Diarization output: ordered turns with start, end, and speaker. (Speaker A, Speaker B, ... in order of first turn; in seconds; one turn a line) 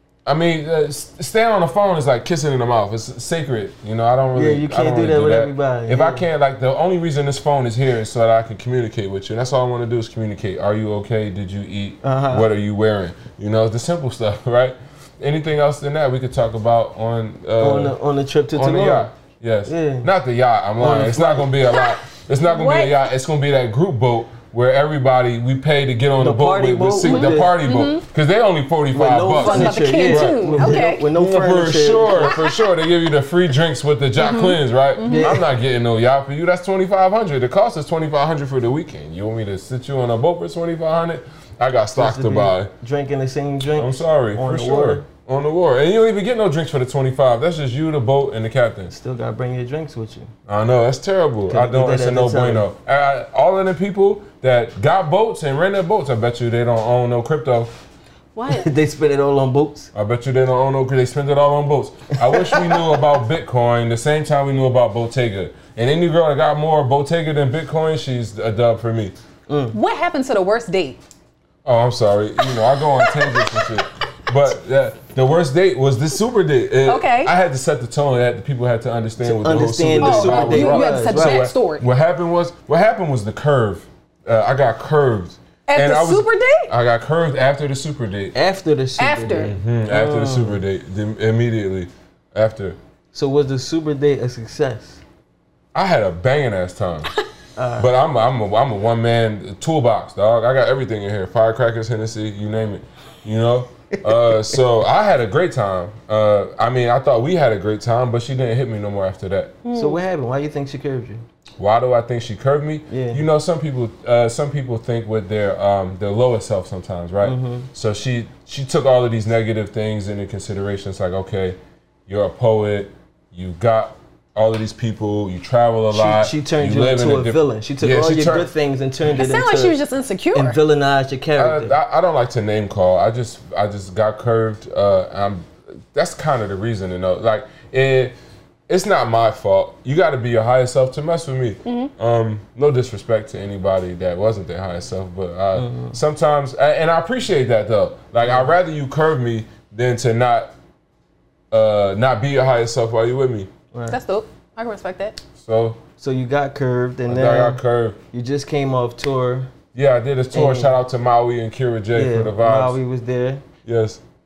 Speaker A: 0.3-18.0
Speaker B: 4.3-6.2
Speaker B: 12.0-12.5
Speaker B: 17.6-19.1
Speaker A: 18.5-42.7
Speaker B: 19.7-20.1
Speaker B: 20.8-21.5
Speaker C: 21.7-23.0
Speaker B: 26.2-27.5
Speaker C: 27.0-28.1
Speaker B: 28.9-32.4
Speaker C: 29.4-31.1
Speaker C: 32.3-32.7
Speaker C: 34.2-35.4
Speaker B: 35.0-35.4
Speaker B: 42.0-45.1
Speaker A: 43.8-48.9
Speaker B: 48.9-50.3
Speaker A: 50.5-57.8
Speaker B: 51.5-52.7
Speaker C: 58.4-58.7
Speaker B: 58.5-59.9
Speaker A: 59.9-69.2
Speaker B: 62.3-62.8
Speaker B: 69.5-69.8
Speaker C: 69.7-71.0
Speaker A: 71.7-88.3
Speaker C: 73.0-73.5
Speaker C: 76.9-77.3
Speaker B: 79.2-81.5
Speaker C: 80.0-81.9
Speaker C: 85.7-86.7
Speaker B: 88.3-90.6
Speaker C: 89.0-89.5
Speaker A: 89.4-92.8
Speaker B: 93.1-95.0
Speaker A: 95.7-97.1
Speaker B: 97.6-97.9
Speaker A: 97.8-109.6
Speaker C: 109.6-110.0
Speaker B: 109.7-111.2
Speaker A: 111.6-128.5
Speaker B: 112.9-113.2
Speaker B: 117.2-117.7
Speaker B: 125.9-129.8
Speaker C: 129.1-130.6
Speaker B: 130.3-131.8
Speaker A: 131.4-138.2
Speaker A: 138.7-150.5
Speaker C: 141.7-141.9
Speaker B: 145.6-146.0
Speaker B: 148.2-148.5
Speaker A: 151.5-153.5
Speaker B: 153.7-154.0
Speaker C: 153.9-155.2
Speaker A: 155.4-155.8
Speaker B: 156.0-159.5
Speaker A: 157.1-158.0
Speaker A: 159.7-162.8
Speaker B: 160.3-160.8
Speaker B: 161.9-163.4
Speaker A: 163.7-164.0